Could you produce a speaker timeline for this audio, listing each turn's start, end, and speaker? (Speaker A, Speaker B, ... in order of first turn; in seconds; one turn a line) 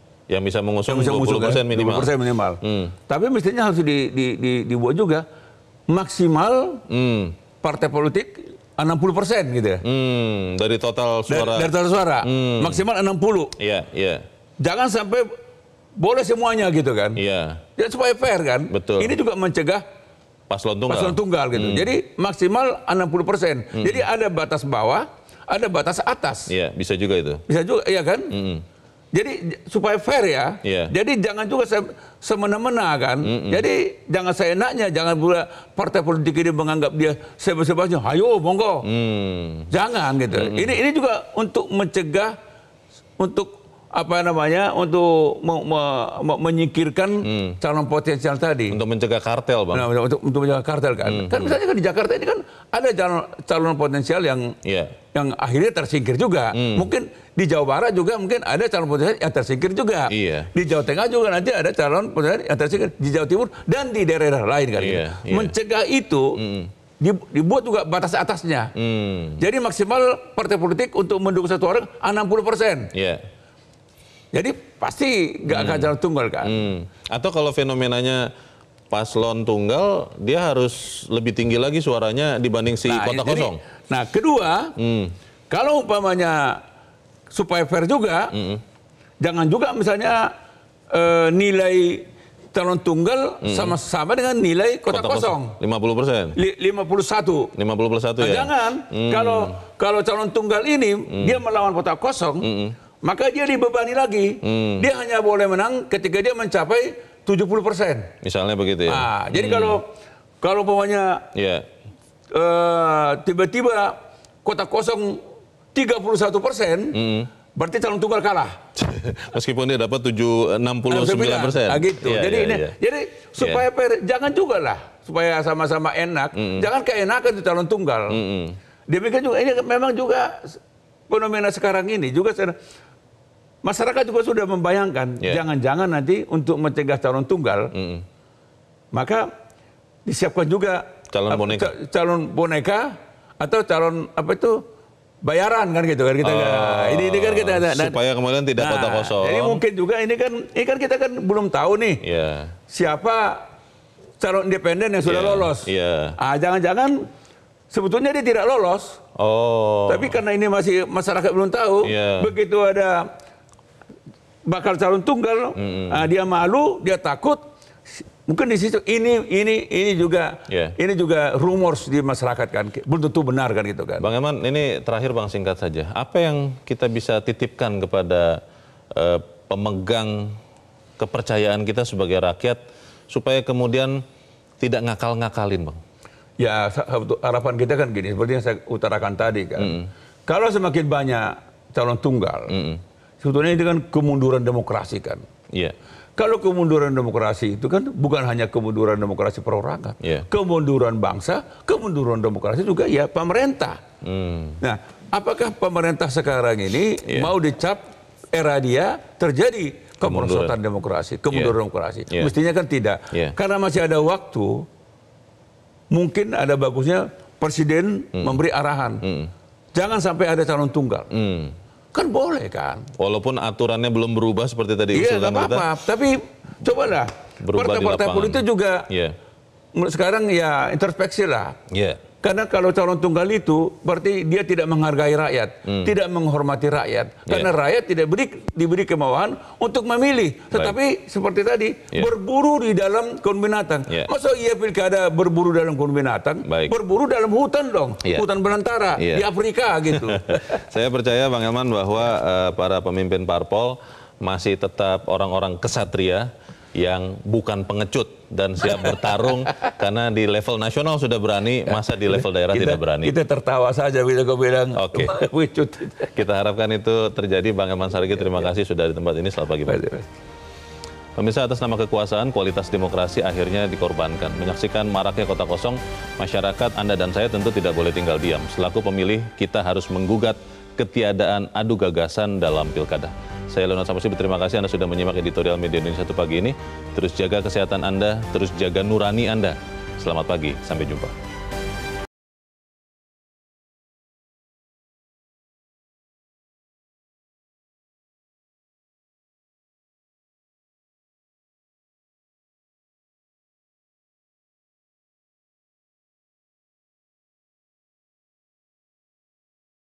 Speaker A: 0.3-3.0
Speaker B: 0.9-5.2
Speaker B: 5.9-6.8
Speaker A: 6.9-7.4
Speaker B: 7.6-9.8
Speaker A: 9.9-11.7
Speaker B: 11.3-13.5
Speaker A: 12.2-12.8
Speaker A: 13.6-14.2
Speaker B: 14.6-15.3
Speaker B: 16.0-17.2
Speaker A: 17.2-17.6
Speaker B: 17.8-19.8
Speaker A: 18.7-19.1
Speaker A: 20.5-21.9
Speaker B: 20.9-26.5
Speaker A: 23.8-24.0
Speaker A: 26.5-27.4
Speaker B: 27.5-28.3
Speaker A: 28.3-28.6
Speaker B: 29.1-38.9
Speaker A: 30.6-30.9
Speaker A: 33.3-33.7
Speaker A: 38.9-39.7
Speaker B: 39.7-42.3
Speaker A: 40.3-40.8
Speaker B: 43.2-48.8
Speaker A: 47.2-47.6
Speaker A: 48.7-49.9
Speaker B: 49.7-54.5
Speaker A: 51.0-51.6
Speaker A: 54.7-55.0
Speaker B: 55.1-66.3
Speaker A: 56.6-56.9
Speaker A: 60.1-60.5
Speaker A: 64.8-65.5
Speaker A: 66.4-66.7
Speaker B: 67.0-68.7
Speaker A: 68.8-69.4
Speaker B: 69.4-72.9
Speaker A: 72.9-73.2
Speaker B: 74.3-76.7
Speaker A: 75.5-75.9
Speaker A: 76.5-78.3
Speaker A: 78.9-83.6
Speaker B: 82.9-84.7
Speaker A: 84.8-85.1
Speaker B: 85.5-86.6
Speaker B: 87.3-88.3
Speaker A: 88.3-88.6
Speaker B: 89.2-90.3
Speaker B: 90.9-95.5
Speaker A: 93.5-93.8
Speaker A: 94.9-96.4
Speaker B: 96.4-97.5
Speaker A: 97.6-99.5
Speaker B: 98.2-102.5
Speaker A: 102.4-102.7
Speaker B: 103.0-108.1
Speaker A: 104.4-104.9
Speaker A: 108.2-109.8
Speaker B: 108.9-109.9
Speaker B: 110.4-111.3
Speaker A: 111.4-111.7
Speaker B: 112.3-115.2
Speaker B: 115.7-117.0
Speaker A: 117.0-117.3
Speaker B: 117.5-118.5
Speaker A: 118.8-122.7
Speaker B: 120.9-128.2
Speaker A: 123.4-123.6
Speaker A: 126.4-126.7
Speaker A: 128.1-128.6
Speaker B: 128.9-130.6
Speaker B: 131.1-132.6
Speaker B: 133.6-137.7
Speaker A: 137.7-138.1
Speaker B: 138.9-139.3
Speaker B: 140.1-144.6
Speaker A: 141.1-141.7
Speaker B: 145.2-148.0
Speaker A: 146.2-149.6
Speaker B: 148.6-152.0
Speaker A: 152.0-152.5
Speaker B: 152.7-153.4
Speaker B: 154.2-155.7
Speaker A: 155.1-156.2
Speaker B: 156.2-157.1
Speaker B: 157.7-159.0
Speaker A: 159.2-160.2
Speaker B: 159.9-163.1
Speaker A: 161.8-162.3
Speaker B: 164.5-167.4
Speaker A: 165.6-166.1
Speaker B: 168.3-174.1
Speaker A: 170.5-170.8
Speaker A: 174.0-178.4
Speaker A: 178.9-180.4
Speaker A: 181.0-182.6
Speaker A: 183.1-184.0
Speaker A: 184.6-185.8
Speaker B: 186.4-189.8
Speaker A: 189.6-189.9
Speaker B: 190.3-192.5
Speaker A: 192.5-192.8
Speaker B: 193.2-195.2
Speaker B: 196.2-203.8
Speaker A: 204.0-204.6
Speaker B: 204.6-207.8
Speaker B: 208.3-214.7
Speaker A: 210.1-210.5
Speaker B: 215.9-219.0
Speaker A: 219.0-219.3
Speaker B: 219.7-221.1
Speaker A: 221.1-221.6
Speaker B: 221.9-222.9
Speaker A: 223.0-225.7
Speaker B: 224.9-228.8
Speaker A: 227.4-229.2
Speaker B: 229.8-231.6
Speaker A: 231.7-232.0
Speaker B: 232.2-250.6
Speaker A: 246.5-246.8
Speaker A: 249.0-249.2
Speaker A: 249.9-263.1
Speaker B: 261.7-266.1
Speaker A: 264.8-265.2
Speaker A: 266.1-269.8
Speaker B: 269.7-270.1
Speaker A: 271.2-291.1